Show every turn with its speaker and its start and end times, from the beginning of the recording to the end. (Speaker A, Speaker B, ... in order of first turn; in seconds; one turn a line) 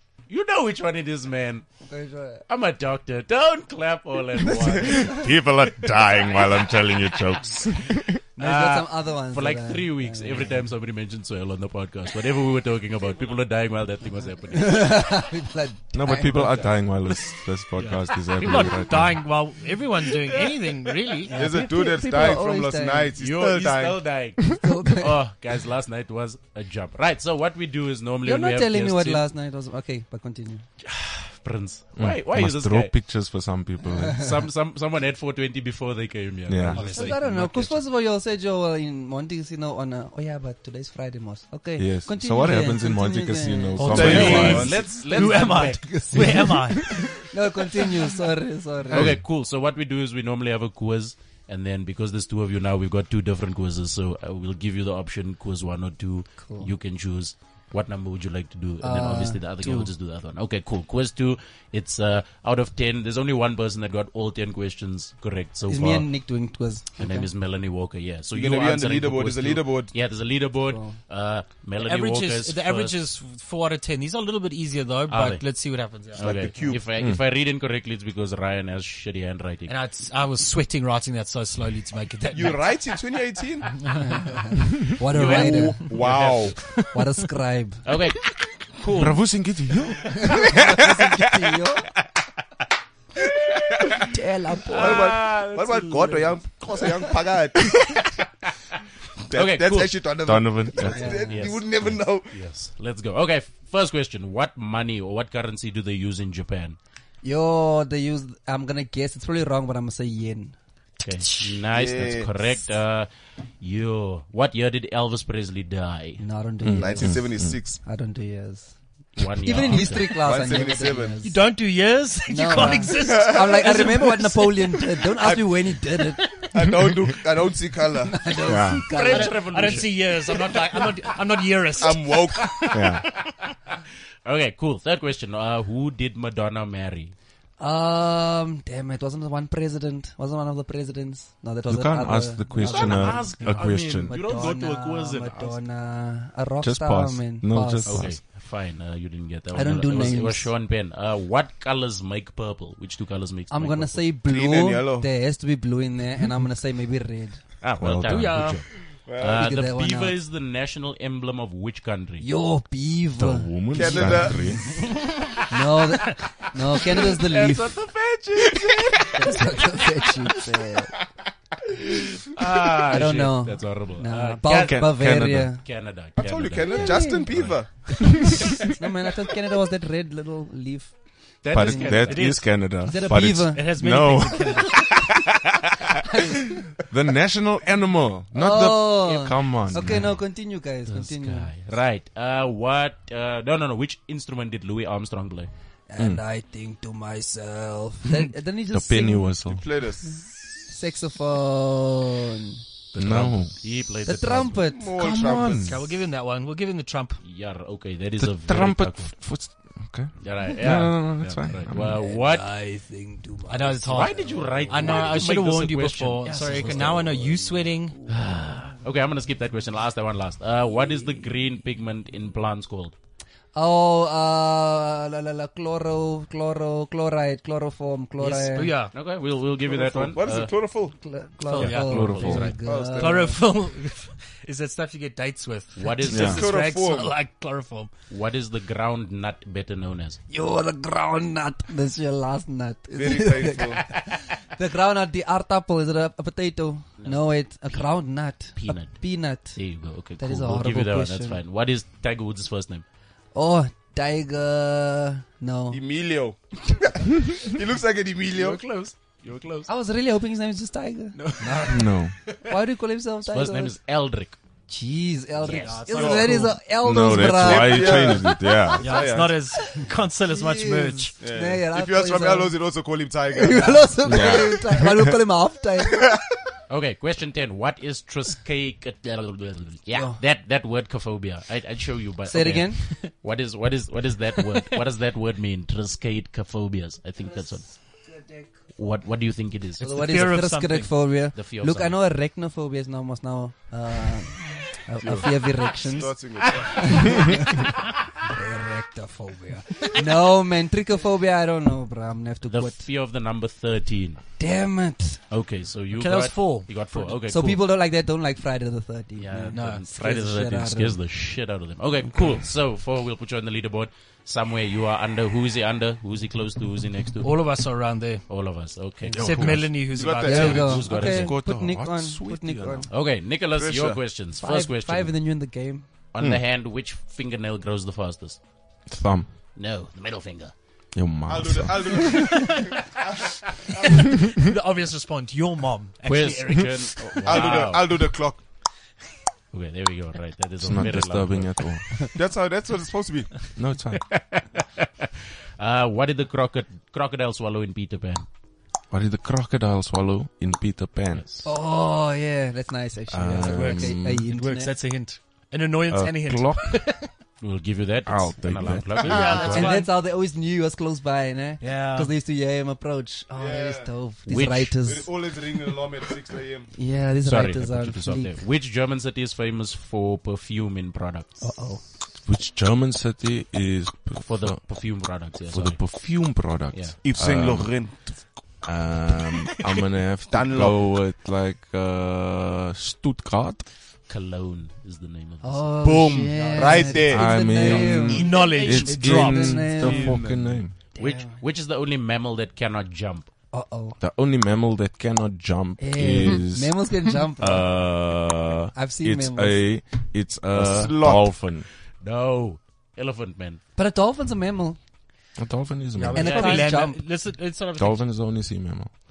Speaker A: 0.3-1.7
Speaker B: 1.8-2.4
Speaker A: 2.5-5.3
Speaker C: 4.4-5.1
Speaker D: 4.8-8.2
Speaker A: 6.0-6.5
Speaker B: 8.3-10.7
Speaker A: 8.4-15.0
Speaker B: 14.5-16.6
Speaker D: 15.9-19.2
Speaker E: 18.3-21.7
Speaker B: 21.2-23.1
Speaker C: 21.3-24.0
Speaker A: 23.2-29.2
Speaker B: 24.5-25.2
Speaker B: 28.2-30.6
Speaker A: 30.8-33.0
Speaker D: 31.9-34.3
Speaker A: 34.1-37.7
Speaker D: 36.5-36.9
Speaker E: 36.7-37.5
Speaker B: 36.9-44.7
Speaker D: 41.8-44.8
Speaker E: 43.8-47.0
Speaker C: 43.9-46.6
Speaker A: 44.0-46.4
Speaker B: 45.8-49.1
Speaker A: 48.9-66.1
Speaker B: 56.4-56.7
Speaker B: 58.8-59.9
Speaker B: 65.7-67.3
Speaker A: 67.0-73.0
Speaker C: 68.3-69.9
Speaker B: 70.7-71.0
Speaker E: 71.8-76.4
Speaker A: 75.1-79.7
Speaker C: 76.2-76.8
Speaker E: 79.7-82.7
Speaker C: 82.3-83.8
Speaker E: 83.8-84.2
Speaker B: 84.1-85.8
Speaker A: 85.1-86.6
Speaker C: 85.1-86.6
Speaker E: 85.3-85.7
Speaker E: 86.5-86.9
Speaker B: 86.9-87.8
Speaker A: 87.8-89.2
Speaker D: 88.9-91.3
Speaker B: 90.1-91.9
Speaker B: 94.0-95.1
Speaker C: 94.7-97.8
Speaker A: 94.7-96.4
Speaker C: 99.3-102.3
Speaker A: 99.3-106.8
Speaker D: 100.2-101.1
Speaker B: 100.9-101.4
Speaker B: 107.2-110.5
Speaker A: 111.0-113.1
Speaker E: 111.0-111.5
Speaker C: 111.7-112.3
Speaker A: 113.6-116.2
Speaker B: 116.2-121.4
Speaker D: 116.6-117.6
Speaker C: 116.8-117.8
Speaker A: 119.2-120.2
Speaker C: 119.8-121.2
Speaker E: 121.2-124.9
Speaker B: 122.3-126.5
Speaker C: 122.5-123.7
Speaker C: 125.2-125.7
Speaker C: 126.4-128.3
Speaker B: 128.1-129.8
Speaker D: 128.4-128.9
Speaker A: 128.9-130.3
Speaker E: 128.9-132.7
Speaker C: 131.7-132.9
Speaker D: 132.7-133.0
Speaker A: 134.2-137.1
Speaker B: 137.6-148.1
Speaker D: 141.7-144.1
Speaker A: 142.6-145.6
Speaker D: 146.6-148.2
Speaker A: 147.8-154.0
Speaker B: 149.5-150.5
Speaker B: 153.5-157.4
Speaker C: 154.2-155.1
Speaker A: 157.6-162.2
Speaker D: 157.8-158.6
Speaker E: 158.0-158.6
Speaker C: 159.1-159.4
Speaker B: 159.3-160.2
Speaker B: 162.2-167.7
Speaker D: 163.2-164.6
Speaker C: 163.7-164.6
Speaker A: 167.1-169.5
Speaker B: 169.1-170.9
Speaker A: 172.2-178.3
Speaker B: 172.9-175.6
Speaker D: 174.4-175.5
Speaker C: 176.2-178.4
Speaker B: 176.7-177.5
Speaker B: 178.7-180.9
Speaker A: 181.4-182.4
Speaker D: 181.5-185.3
Speaker B: 181.6-182.0
Speaker E: 181.8-184.9
Speaker B: 182.5-183.7
Speaker D: 186.9-190.2
Speaker B: 188.3-191.5
Speaker A: 190.9-195.5
Speaker B: 195.9-199.3
Speaker D: 196.0-196.2
Speaker D: 198.1-199.6
Speaker C: 199.4-200.3
Speaker B: 200.7-202.6
Speaker A: 202.9-204.6
Speaker D: 202.9-203.5
Speaker B: 204.0-204.9
Speaker C: 204.7-205.8
Speaker D: 204.9-205.8
Speaker E: 205.2-207.2
Speaker A: 207.2-209.2
Speaker D: 208.2-212.0
Speaker A: 210.2-212.5
Speaker B: 211.9-215.1
Speaker E: 213.5-218.0
Speaker A: 213.8-222.9
Speaker B: 216.3-216.6
Speaker B: 223.5-228.7
Speaker E: 228.2-228.9
Speaker A: 228.9-230.5
Speaker C: 229.6-230.9
Speaker B: 231.0-233.4
Speaker E: 231.4-232.3
Speaker A: 231.5-232.6
Speaker D: 231.7-232.5
Speaker C: 232.6-233.4
Speaker E: 232.9-237.9
Speaker A: 235.7-236.5
Speaker D: 236.1-236.4
Speaker C: 236.1-237.2
Speaker A: 238.1-240.2
Speaker B: 240.3-251.4
Speaker C: 242.9-243.8
Speaker A: 247.0-247.8
Speaker A: 248.5-252.8
Speaker B: 253.3-255.8
Speaker C: 255.7-258.6
Speaker A: 258.3-259.7
Speaker B: 259.7-263.8
Speaker A: 261.1-262.5
Speaker D: 261.7-262.1
Speaker A: 263.3-264.4
Speaker B: 264.7-268.8
Speaker A: 265.4-266.2
Speaker E: 265.5-266.6
Speaker C: 266.0-266.5
Speaker D: 266.8-268.9
Speaker C: 267.1-269.4
Speaker E: 268.8-271.1
Speaker B: 269.5-272.6
Speaker C: 271.2-274.3
Speaker B: 273.3-276.1
Speaker D: 274.0-275.1
Speaker A: 276.7-287.8
Speaker B: 279.9-280.2
Speaker B: 282.3-283.1
Speaker B: 287.2-288.5
Speaker A: 288.7-290.1
Speaker B: 289.8-297.7
Speaker E: 289.8-291.1
Speaker A: 291.2-292.0
Speaker A: 295.0-297.6
Speaker C: 295.9-297.3
Speaker B: 298.2-302.9
Speaker A: 302.5-304.2
Speaker B: 304.4-305.2
Speaker A: 305.3-307.6
Speaker E: 305.9-307.2
Speaker B: 307.3-311.0
Speaker A: 309.2-319.6
Speaker E: 309.5-309.9
Speaker E: 317.2-318.2
Speaker B: 319.0-319.5
Speaker E: 319.1-320.9
Speaker D: 319.2-319.8
Speaker C: 319.9-320.7
Speaker B: 320.0-322.9
Speaker A: 320.2-321.3
Speaker D: 320.4-322.9
Speaker A: 322.9-325.1
Speaker C: 323.6-324.0
Speaker B: 324.4-325.9
Speaker A: 326.1-328.4
Speaker D: 328.9-329.3
Speaker A: 329.5-330.5
Speaker D: 330.9-332.1
Speaker C: 331.3-333.2
Speaker E: 332.2-332.4
Speaker E: 333.8-337.7
Speaker A: 336.0-338.1
Speaker C: 337.2-338.4
Speaker A: 339.5-341.9
Speaker D: 340.6-341.9
Speaker C: 342.1-343.5
Speaker D: 343.5-344.2
Speaker A: 344.1-344.9
Speaker A: 345.6-348.2
Speaker D: 348.9-351.2
Speaker A: 351.1-351.4
Speaker B: 351.4-354.7
Speaker D: 353.1-354.2
Speaker E: 353.4-357.1
Speaker D: 355.9-356.9
Speaker A: 357.4-359.7
Speaker D: 358.1-359.4
Speaker E: 359.0-359.9
Speaker C: 359.0-359.4
Speaker B: 359.2-365.1
Speaker E: 361.6-362.1
Speaker C: 363.3-363.9
Speaker A: 364.3-364.7
Speaker C: 364.8-366.7
Speaker B: 366.8-368.4
Speaker A: 367.2-371.4
Speaker B: 371.4-371.8
Speaker D: 372.2-374.6
Speaker A: 374.2-377.0
Speaker D: 375.2-377.9
Speaker C: 377.0-378.2
Speaker D: 378.6-383.6
Speaker C: 380.3-380.9
Speaker A: 384.1-385.7
Speaker B: 385.4-390.2
Speaker C: 385.9-387.3
Speaker E: 386.3-387.0
Speaker D: 387.1-390.7
Speaker E: 387.6-389.8
Speaker C: 389.8-390.6
Speaker B: 390.9-391.4
Speaker A: 390.9-393.3
Speaker B: 393.5-394.0
Speaker D: 394.0-396.9
Speaker B: 395.8-397.8
Speaker D: 397.4-401.7
Speaker B: 398.7-399.7
Speaker C: 400.5-401.3
Speaker A: 402.0-403.6
Speaker B: 403.8-404.8
Speaker D: 405.4-406.4
Speaker E: 405.9-408.1
Speaker B: 406.1-407.0
Speaker A: 406.1-406.7
Speaker D: 407.8-408.9